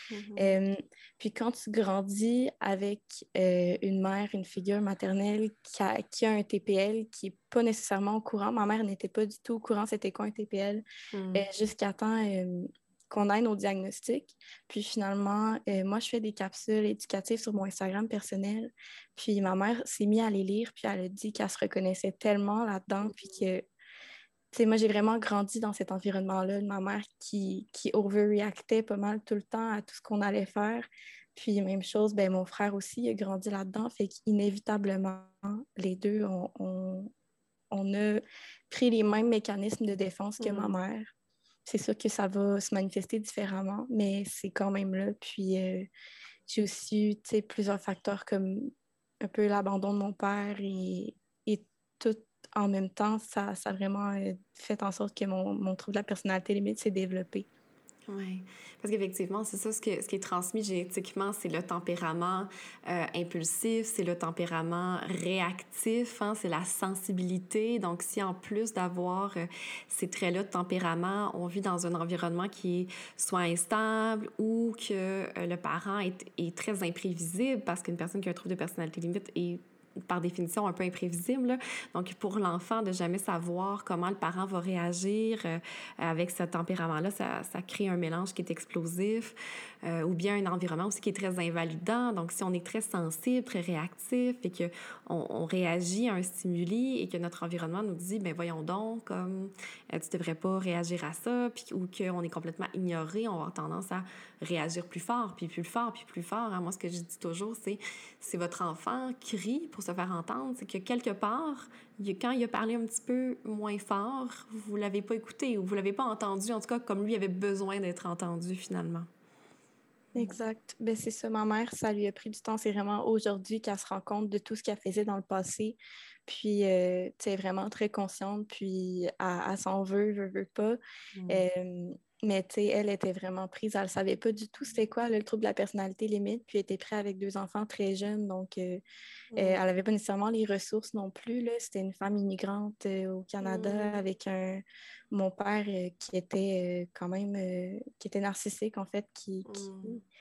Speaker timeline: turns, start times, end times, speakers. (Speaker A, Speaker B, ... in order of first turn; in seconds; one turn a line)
Speaker A: 0.1-0.6
Speaker B: 0.4-10.8
Speaker A: 11.1-11.5
Speaker B: 11.3-23.7
Speaker A: 23.0-23.5
Speaker B: 24.5-37.1
Speaker B: 37.7-41.1
Speaker A: 40.4-40.8
Speaker B: 41.7-45.9
Speaker B: 46.5-48.7
Speaker B: 49.2-57.5
Speaker A: 58.1-119.1
Speaker B: 120.1-138.8
Speaker A: 131.2-131.4
Speaker A: 139.3-139.6
Speaker B: 139.4-150.0
Speaker A: 143.4-144.0
Speaker A: 149.5-150.0